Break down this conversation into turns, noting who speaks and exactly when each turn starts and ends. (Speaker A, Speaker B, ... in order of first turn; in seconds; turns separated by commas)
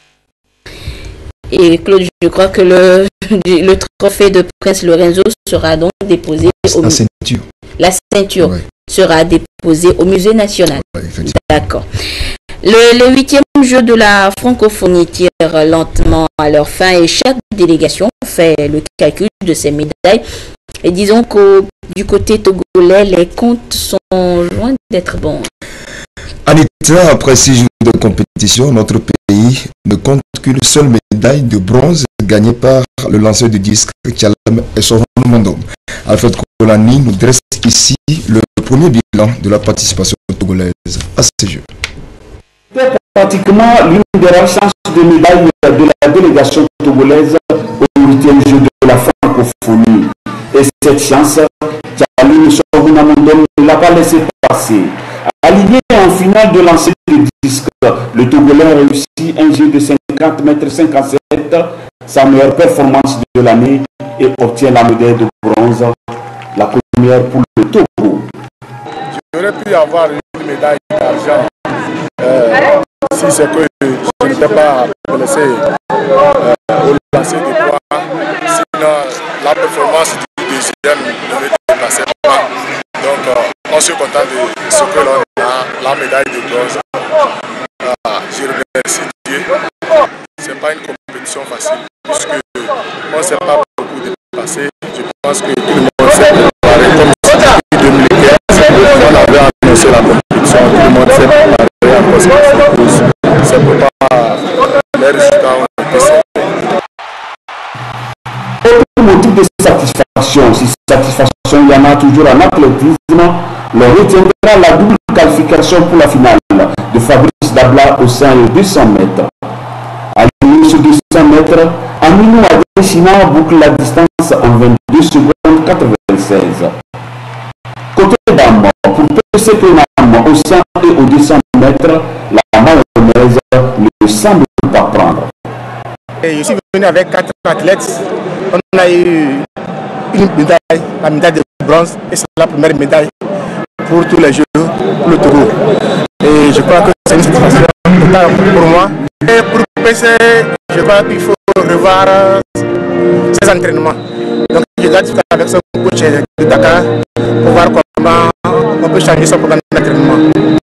Speaker A: 1.5-7.0, Speaker B: 6.6-7.4, Speaker A: 7.8-11.9, Speaker B: 10.8-11.4, Speaker A: 12.6-20.2, Speaker A: 20.8-25.5, Speaker B: 26.4-41.7, Speaker C: 42.7-66.0, Speaker C: 66.5-68.3, Speaker D: 69.2-71.5, Speaker D: 72.2-75.6, Speaker D: 76.4-82.4, Speaker D: 83.0-86.8, Speaker D: 87.8-89.5, Speaker D: 90.4-104.4, Speaker D: 105.0-106.5, Speaker C: 108.6-119.3, Speaker C: 120.1-126.8, Speaker C: 127.9-135.3, Speaker D: 136.2-139.5, Speaker D: 140.1-143.1, Speaker D: 143.8-145.5, Speaker D: 146.2-152.4, Speaker D: 153.3-160.2